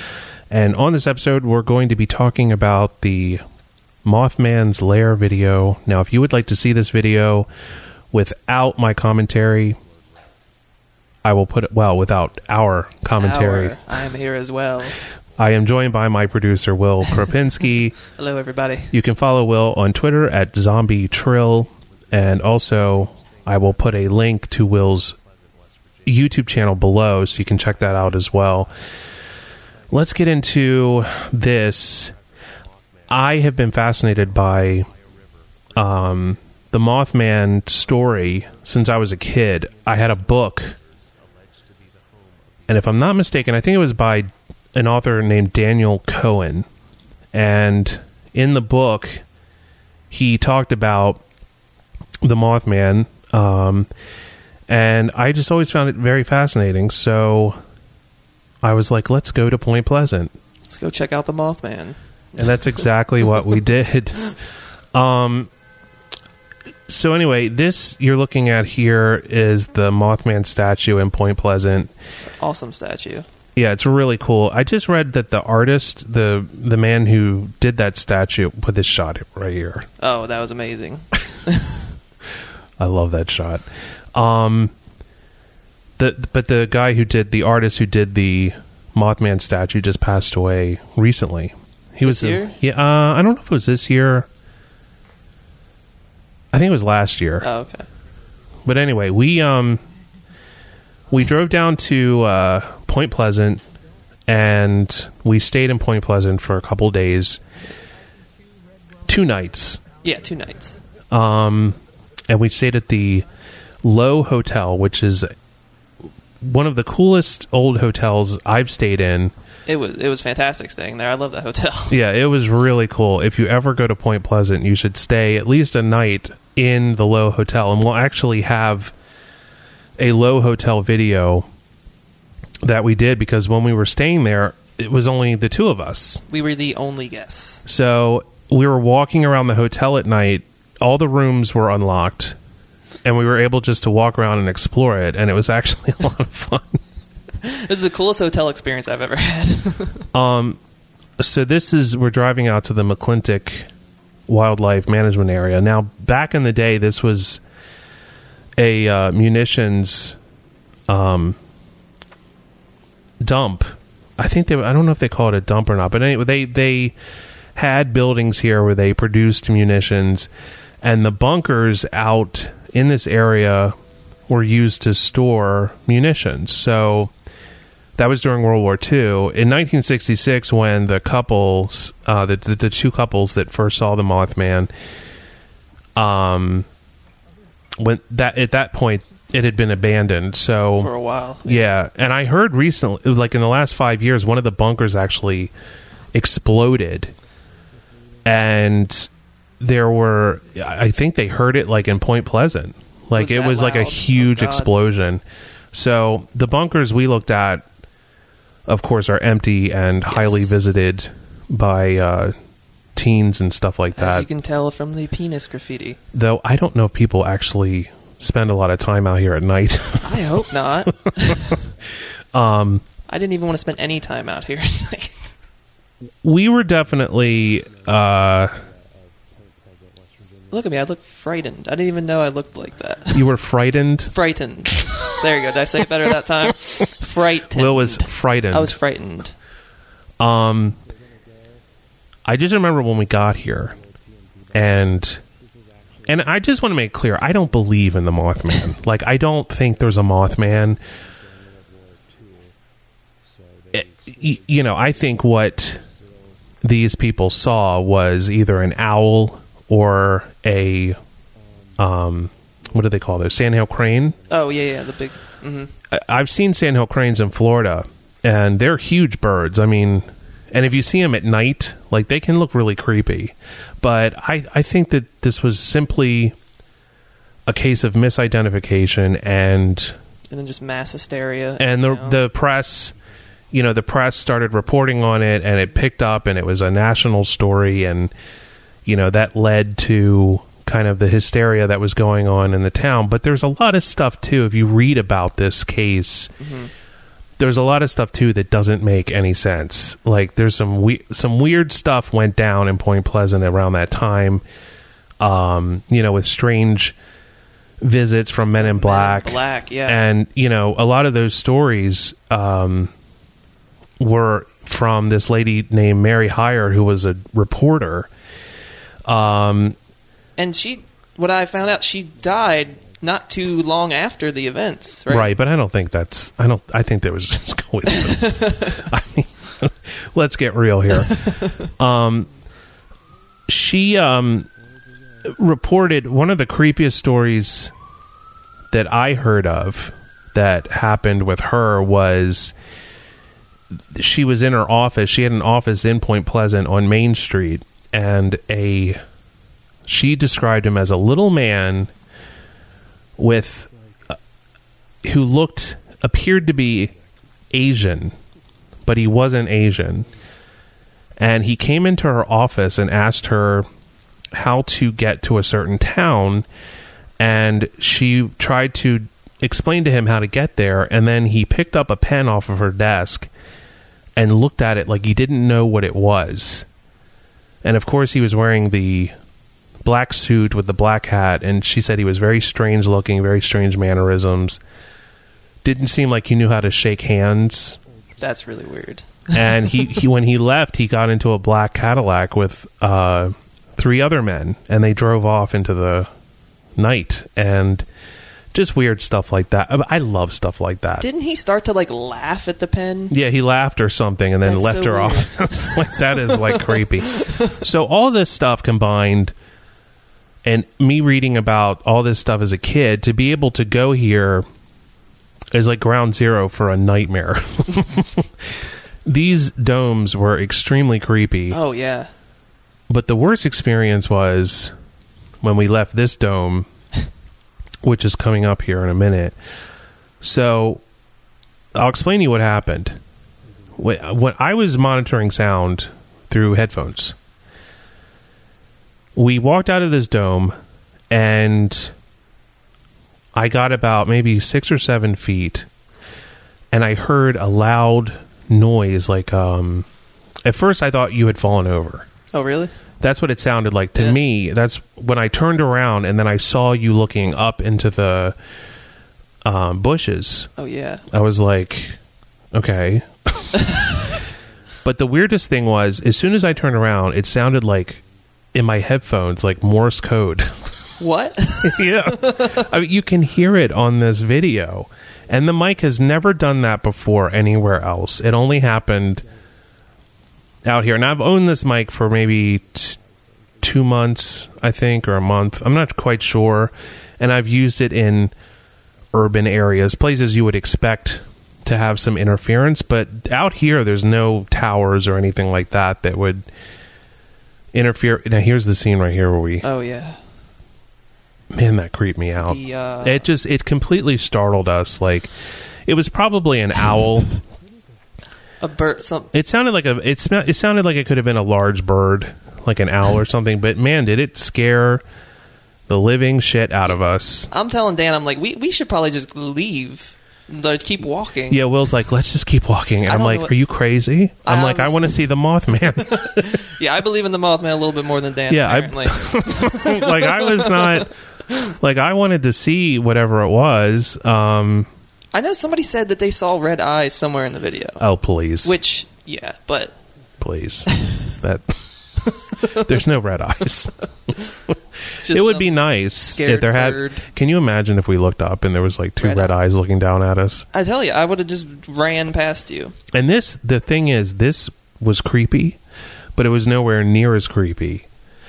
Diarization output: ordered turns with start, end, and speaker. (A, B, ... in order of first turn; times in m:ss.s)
0:00.5-0:03.4 A
0:04.0-0:07.5 A
0:08.1-0:09.8 A
0:11.2-0:13.8 A
0:13.2-0:15.0 B
0:15.4-0:18.0 A
0:18.1-0:18.9 B
0:18.9-0:25.1 A
0:26.0-0:28.7 A
0:29.9-0:32.1 A
0:33.1-0:34.9 A
0:35.8-0:40.7 A
0:42.7-0:46.7 A
0:47.3-0:49.2 A
0:50.1-0:51.2 A
0:52.2-0:53.9 A
0:54.7-0:57.6 A
0:58.6-1:00.3 A
1:00.7-1:02.8 B
1:02.4-1:04.3 A
1:04.9-1:05.5 A
1:06.9-1:11.9 A
1:12.2-1:13.2 B
1:13.6-1:19.9 A
1:20.0-1:21.9 B
1:22.8-1:24.7 A
1:26.0-1:34.3 A
1:32.0-1:32.6 B
1:36.5-1:37.5 A
1:37.4-1:37.8 B
1:38.6-1:39.8 A
1:41.1-1:43.6 A
1:44.3-1:47.4 A
1:49.1-1:49.8 A
1:50.0-1:50.8 B
1:51.1-1:53.2 A
1:53.8-1:55.3 A
1:56.4-1:59.3 A
1:59.7-2:02.0 B
2:01.9-2:08.9 A
2:10.0-2:11.4 A
2:12.6-2:16.2 A
2:16.3-2:17.6 B
2:17.6-2:22.4 A
2:23.0-2:26.8 A
2:27.4-2:30.0 B
2:30.1-2:30.6 A
2:31.2-2:33.7 A
2:34.3-2:37.4 A
2:38.6-2:40.2 A
2:40.9-2:41.4 A
2:43.2-2:46.9 A
2:47.6-2:50.3 A
2:50.8-2:53.7 A
2:54.3-2:57.1 A
2:58.0-3:04.7 A
3:06.0-3:06.7 A
3:07.8-3:10.9 A
3:10.8-3:11.7 B
3:11.4-3:15.5 A
3:16.1-3:17.1 A
3:18.2-3:19.1 A
3:19.6-3:27.6 A
3:23.1-3:24.7 B
3:28.7-3:32.3 A
3:30.1-3:30.6 B
3:33.0-3:34.3 A
3:33.9-3:36.0 B
3:36.1-3:40.3 A
3:40.0-3:41.6 B
3:41.0-3:41.5 A
3:42.3-3:42.8 A
3:43.1-3:45.3 B
3:46.2-3:48.6 A
3:50.5-3:53.3 B
3:53.1-3:54.1 A
3:54.0-3:59.3 B
3:57.5-3:58.8 A
4:00.2-4:00.8 A
4:02.3-4:03.7 A
4:04.5-4:05.2 A
4:06.1-4:10.8 A
4:13.7-4:15.8 A
4:16.6-4:21.0 A
4:21.8-4:24.2 A
4:24.3-4:25.7 B
4:25.9-4:36.3 A
4:37.5-4:40.0 A
4:40.3-4:42.2 B
4:41.6-4:42.9 A
4:43.5-4:48.1 A
4:48.8-4:56.3 A
4:56.4-4:56.7 B
4:57.4-5:04.4 A
5:05.2-5:06.9 A
5:07.8-5:12.9 A
5:08.6-5:10.0 B
5:14.0-5:18.1 A
5:19.1-5:19.8 A
5:20.4-5:25.3 B
5:25.1-5:31.2 A
5:27.9-5:28.8 B
5:31.0-5:31.6 B
5:31.8-5:32.3 A
5:33.5-5:34.5 A
5:35.2-5:37.7 A
5:38.7-5:42.5 A
5:43.9-5:49.0 A
5:49.9-5:51.9 A
5:53.2-5:53.7 A
5:55.0-5:56.9 A
5:57.5-5:58.1 A
5:58.8-6:00.1 A
6:01.2-6:03.6 A
6:04.3-6:06.4 A
6:07.2-6:13.3 A
6:14.2-6:16.7 A
6:17.6-6:19.1 A
6:19.8-6:24.6 A
6:25.6-6:27.8 A
6:28.2-6:29.6 B
6:29.3-6:36.1 A
6:36.8-6:37.8 A
6:38.5-6:41.0 A
6:41.0-6:43.1 B
6:43.1-6:49.3 A
6:44.4-6:47.6 B
6:50.4-6:54.4 A
6:55.5-6:58.5 A
6:59.0-7:01.6 A
7:01.5-7:02.1 B
7:02.9-7:04.7 A
7:05.4-7:06.7 A
7:07.8-7:09.3 A
7:10.2-7:10.8 A
7:11.7-7:13.0 A
7:13.8-7:17.2 A
7:19.2-7:20.5 A
7:21.1-7:21.9 A
7:23.3-7:25.7 A
7:26.7-7:29.9 A
7:30.4-7:32.1 A
7:32.3-7:32.7 B
7:33.0-7:38.4 A
7:39.4-7:40.5 A
7:40.6-7:41.0 B
7:41.1-7:42.0 A
7:42.5-7:43.9 A
7:44.8-7:48.0 A
7:48.5-7:50.6 A
7:51.0-7:52.6 B
7:51.6-7:59.2 A
8:00.6-8:03.0 A
8:03.6-8:08.3 A
8:09.1-8:16.5 A
8:17.7-8:19.6 A
8:19.6-8:20.2 B
8:21.5-8:25.3 A
8:22.4-8:23.3 B
8:25.9-8:27.4 A
8:28.6-8:29.3 B
8:29.3-8:35.0 A
8:35.9-8:37.5 A
8:37.5-8:41.6 B
8:41.5-8:46.6 A
8:43.1-8:43.5 B
8:44.4-8:45.2 B
8:46.0-8:51.1 B
8:48.5-8:51.1 A
8:51.6-8:54.9 A
8:55.3-8:58.0 B
8:58.0-8:58.7 A
8:58.6-8:59.9 B
9:00.4-9:01.7 A
9:00.9-9:01.3 B
9:02.4-9:02.9 B
9:02.7-9:04.1 A
9:05.2-9:07.2 B
9:05.3-9:10.6 A
9:09.2-9:09.6 B
9:10.7-9:12.9 B
9:13.1-9:15.8 A
9:16.4-9:18.1 A